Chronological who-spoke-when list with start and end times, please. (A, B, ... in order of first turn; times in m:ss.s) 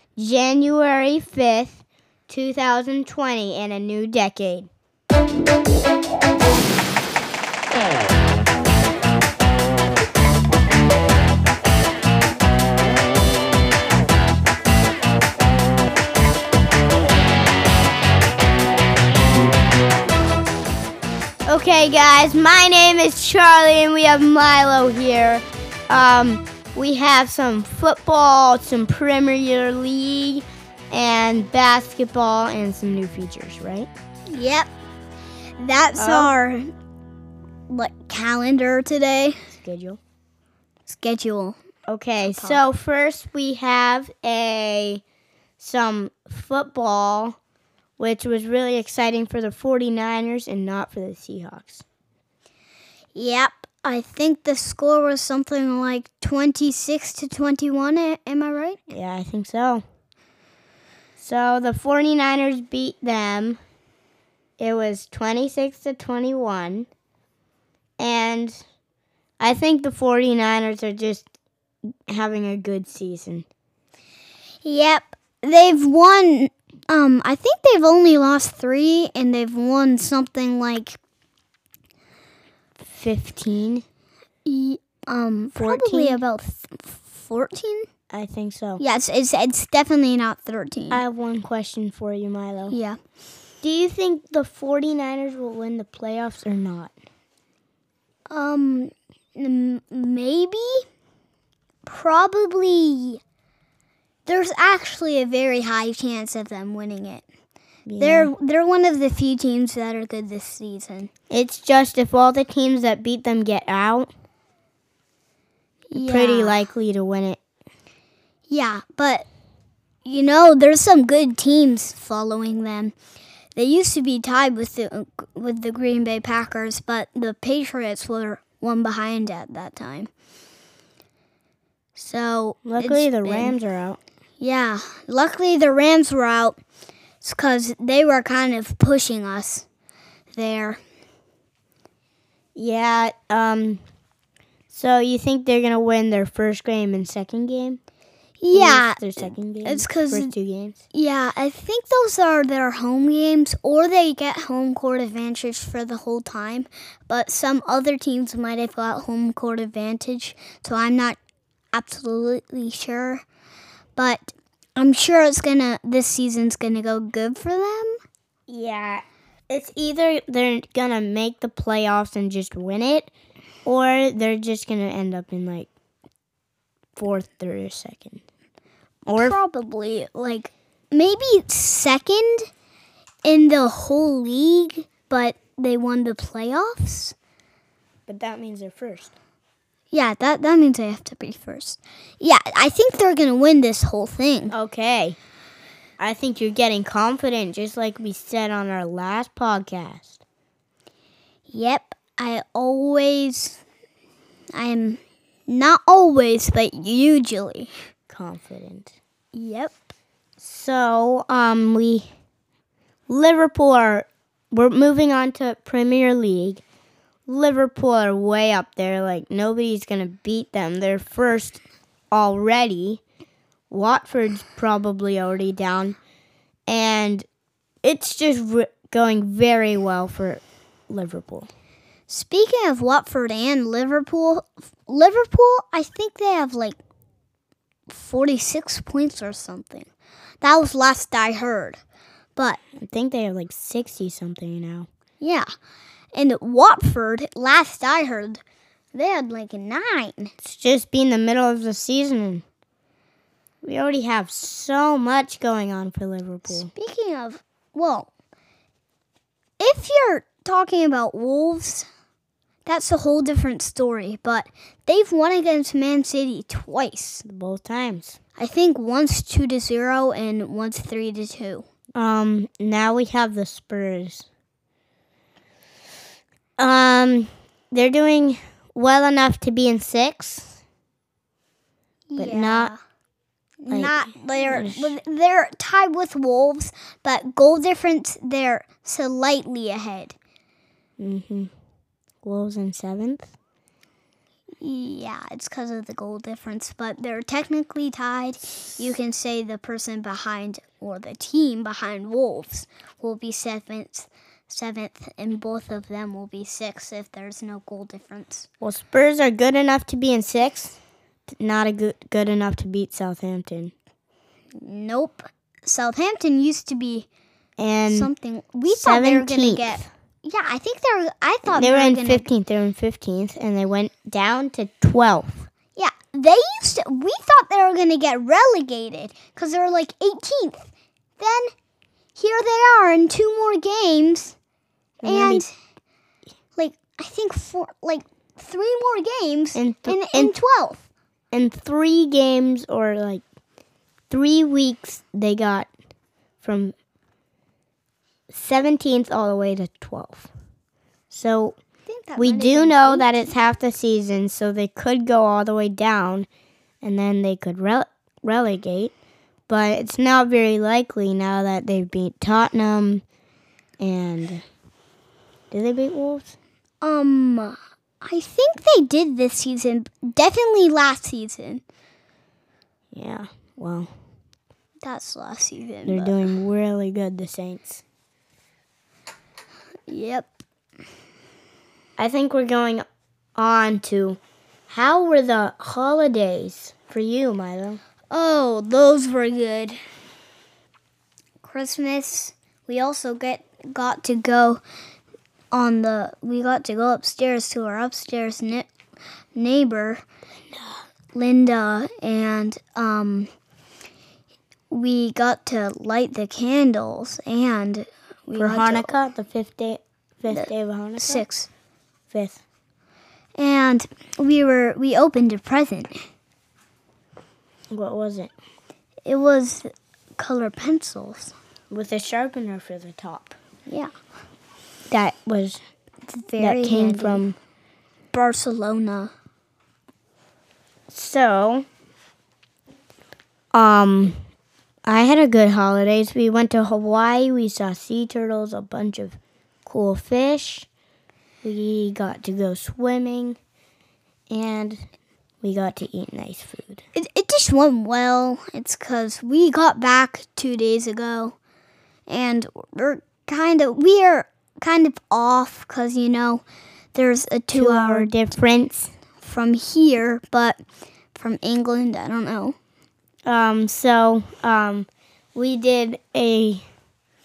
0:00.2-0:04.7 A
0:21.4-0:33.9 A
0:34.3-0:34.7 B
0:35.6-0:36.7 B
0:36.0-0:36.3 A
0:37.7-0:39.4 B
0:39.5-0:40.0 A
0:40.9-0:41.6 B
0:41.9-0:45.0 A
0:42.3-0:42.6 B
0:45.6-0:47.4 A
0:48.0-0:51.8 A
0:53.1-0:58.8 B
0:58.9-0:59.8 A
1:01.2-1:03.6 A
1:04.6-1:06.9 A
1:08.0-1:08.6 A
1:09.4-1:11.3 A
1:12.1-1:13.4 A
1:14.6-1:21.0 B
1:22.8-1:23.8 A
1:24.4-1:27.9 B
1:25.5-1:26.2 A
1:28.1-1:28.8 A
1:28.8-1:31.0 B
1:30.9-1:32.8 A
1:32.7-1:33.0 B
1:33.6-1:36.9 A
1:38.3-1:40.8 B
1:41.8-1:43.2 B
1:44.3-1:47.2 B
1:47.8-1:48.3 A
1:48.0-1:51.1 B
1:51.3-1:54.1 A
1:55.9-1:56.6 B
1:55.9-1:57.4 A
1:58.5-1:59.3 B
2:00.0-2:02.9 B
2:03.5-2:10.1 B
2:12.0-2:13.6 B
2:12.6-2:14.0 A
2:14.4-2:16.6 B
2:17.2-2:19.6 B
2:20.3-2:20.8 B
2:22.5-2:23.8 A
2:24.7-2:27.8 A
2:28.4-2:30.3 B
2:28.5-2:30.8 A
2:30.9-2:41.2 B
2:41.7-2:43.2 B
2:44.0-2:48.0 B
2:48.5-2:53.1 A
2:53.6-2:55.7 A
2:57.0-2:58.2 A
2:59.1-2:59.4 A
2:59.2-3:02.5 B
3:03.2-3:07.1 B
3:08.1-3:09.1 A
3:09.9-3:14.5 B
3:14.5-3:15.2 A
3:16.0-3:20.2 A
3:21.5-3:23.6 B
3:24.5-3:27.7 B
3:28.1-3:29.0 A
3:29.3-3:29.9 B
3:30.4-3:32.1 A
3:33.1-3:36.6 A
3:37.3-3:43.0 A
3:43.7-3:46.0 A
3:46.7-3:47.2 A
3:47.8-3:51.5 A
3:52.1-3:56.8 B
3:57.9-3:59.9 B
4:00.4-4:01.8 B
4:02.4-4:02.6 B
4:02.8-4:04.9 A
4:05.2-4:05.5 B
4:06.1-4:08.4 B
4:08.9-4:10.3 B
4:10.4-4:12.4 A
4:13.6-4:16.7 A
4:16.5-4:18.1 B
4:19.6-4:21.9 B
4:22.6-4:27.2 B
4:27.2-4:28.2 A
4:28.4-4:31.6 B
4:32.0-4:34.2 A
4:36.6-4:40.6 A
4:42.1-4:42.8 B
4:42.2-4:42.7 A
4:43.6-4:50.2 B
4:43.7-4:45.0 A
4:51.0-4:51.5 A
4:52.2-4:53.3 A
4:54.6-5:08.5 B
5:08.6-5:10.8 A
5:11.3-5:13.7 A
5:14.6-5:17.1 B
5:17.6-5:18.1 A
5:17.9-5:22.3 B
5:18.7-5:19.9 A
5:21.5-5:25.5 A
5:25.7-5:31.5 B
5:32.2-5:34.4 B
5:35.0-5:35.4 A
5:35.0-5:35.5 B
5:36.6-5:40.8 B
5:39.5-5:40.3 A
5:41.3-5:43.2 A
5:44.1-5:45.7 A
5:46.4-5:46.7 A
5:48.3-5:50.3 A
5:51.1-5:51.6 A
5:51.8-5:53.3 B
5:52.2-5:56.3 A
5:56.8-5:58.9 A
5:59.5-6:03.0 A
6:03.8-6:04.4 A
6:05.5-6:06.4 A
6:06.8-6:11.6 B
6:12.9-6:13.9 A
6:14.8-6:16.2 B
6:15.8-6:17.8 A
6:19.9-6:20.3 B
6:22.0-6:22.8 A
6:23.4-6:27.8 A
6:28.1-6:29.8 B
6:31.4-6:34.6 B
6:35.5-6:38.7 B
6:39.3-6:40.0 B
6:41.1-6:43.3 B
6:44.7-6:48.9 B
6:48.3-6:51.2 A
6:50.3-6:51.5 B
6:52.1-6:52.4 A
6:53.4-6:56.0 B
6:57.7-6:58.3 A
6:59.0-7:01.3 B
7:01.7-7:03.3 A
7:03.7-7:03.9 B
7:04.9-7:05.6 A
7:06.1-7:07.2 B
7:06.4-7:07.3 A
7:08.1-7:09.1 B
7:10.9-7:11.6 A
7:13.5-7:14.2 A
7:14.8-7:20.7 A
7:21.4-7:23.4 A
7:24.3-7:24.8 A
7:25.4-7:26.8 A
7:26.9-7:31.4 B
7:32.1-7:38.1 B
7:37.5-7:38.9 A
7:39.2-7:40.6 B
7:41.1-7:42.6 B
7:43.2-7:46.6 A